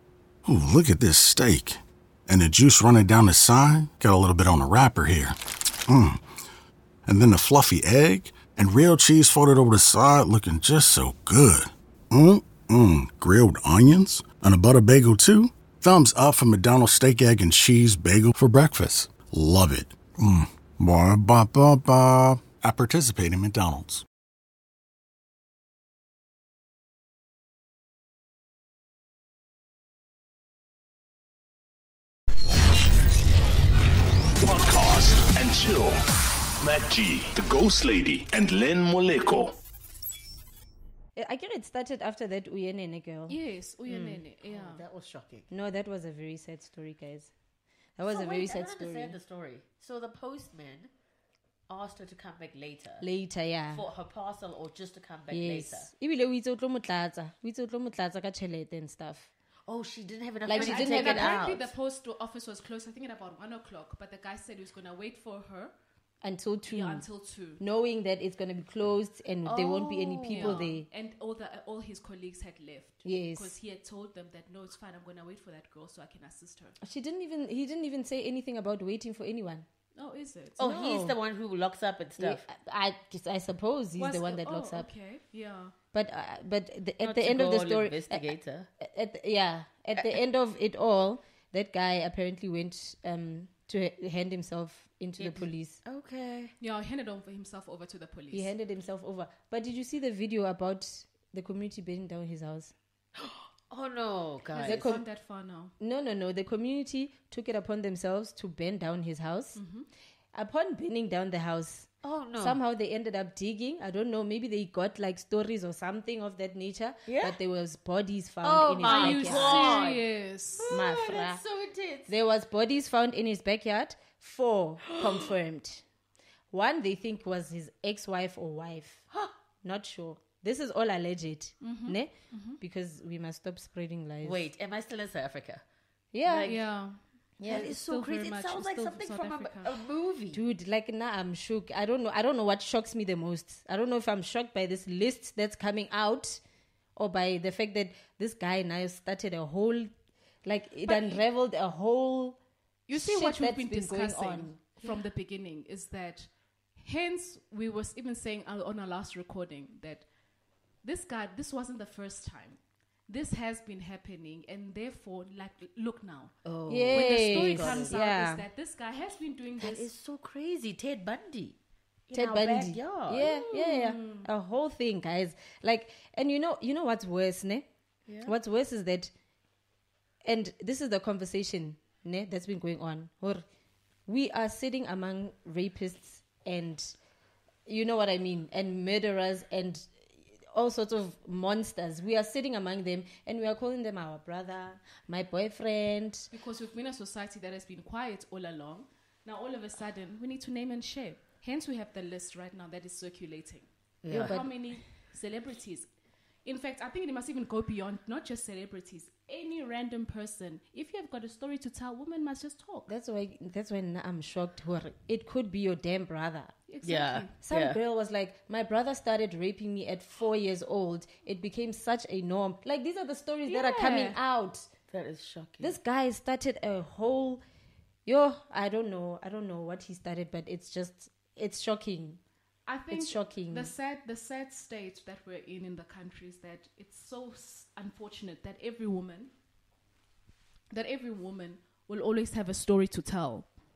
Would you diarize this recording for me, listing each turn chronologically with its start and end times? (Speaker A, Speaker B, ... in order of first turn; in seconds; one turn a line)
Speaker A: 0.5-5.4
Speaker A: 5.9-6.2
Speaker A: 7.1-24.0
Speaker B: 34.4-36.0
Speaker B: 36.6-39.5
Speaker C: 41.2-43.4
Speaker D: 43.3-44.8
Speaker E: 43.9-45.5
Speaker C: 45.5-47.3
Speaker C: 48.0-49.2
Speaker E: 48.1-50.9
Speaker E: 51.7-53.0
Speaker C: 53.0-53.9
Speaker E: 53.7-55.9
Speaker C: 55.3-59.3
Speaker E: 59.7-61.7
Speaker C: 60.5-61.5
Speaker D: 60.5-65.7
Speaker C: 66.2-67.0
Speaker D: 66.7-67.6
Speaker C: 67.6-70.9
Speaker E: 69.5-70.7
Speaker D: 70.3-76.8
Speaker C: 73.0-73.5
Speaker C: 76.8-79.7
Speaker D: 80.0-80.6
Speaker C: 80.6-81.2
Speaker E: 80.6-82.4
Speaker C: 82.2-84.9
Speaker D: 84.0-85.7
Speaker C: 85.9-95.8
Speaker E: 87.0-88.7
Speaker E: 95.2-96.5
Speaker D: 96.6-98.5
Speaker C: 98.3-102.7
Speaker E: 103.2-104.9
Speaker D: 104.5-105.7
Speaker C: 104.6-105.0
Speaker C: 105.8-109.6
Speaker D: 109.6-109.9
Speaker C: 110.3-119.9
Speaker E: 112.0-112.6
Speaker E: 117.1-117.4
Speaker E: 118.4-120.0
Speaker D: 118.8-120.7
Speaker E: 120.6-122.1
Speaker C: 120.7-121.4
Speaker C: 122.1-125.8
Speaker E: 124.9-125.3
Speaker C: 126.5-129.1
Speaker C: 129.6-134.5
Speaker D: 131.6-132.6
Speaker E: 134.2-135.6
Speaker C: 136.1-136.5
Speaker E: 136.2-136.6
Speaker D: 136.4-139.8
Speaker C: 137.4-137.7
Speaker E: 137.5-140.4
Speaker C: 140.3-146.4
Speaker C: 147.0-149.9
Speaker C: 150.4-152.4
Speaker D: 150.9-151.2
Speaker D: 152.9-160.1
Speaker C: 152.9-154.9
Speaker D: 160.8-166.3
Speaker E: 166.4-167.9
Speaker C: 166.7-168.4
Speaker D: 166.9-169.9
Speaker E: 169.6-171.6
Speaker E: 172.1-173.3
Speaker C: 172.1-177.7
Speaker D: 173.2-174.3
Speaker C: 178.2-179.1
Speaker C: 180.2-183.5
Speaker C: 184.1-186.9
Speaker C: 187.7-189.9
Speaker C: 190.5-196.3
Speaker D: 196.3-203.7
Speaker E: 204.0-204.4
Speaker C: 204.1-204.5
Speaker D: 204.2-205.9
Speaker D: 206.4-212.9
Speaker C: 212.9-216.6
Speaker D: 216.7-217.3
Speaker E: 216.8-217.8
Speaker C: 217.4-224.7
Speaker D: 223.5-224.2
Speaker E: 224.9-225.8
Speaker C: 225.6-227.4
Speaker C: 228.1-232.2
Speaker D: 232.7-239.3
Speaker C: 232.9-233.7
Speaker D: 240.7-243.5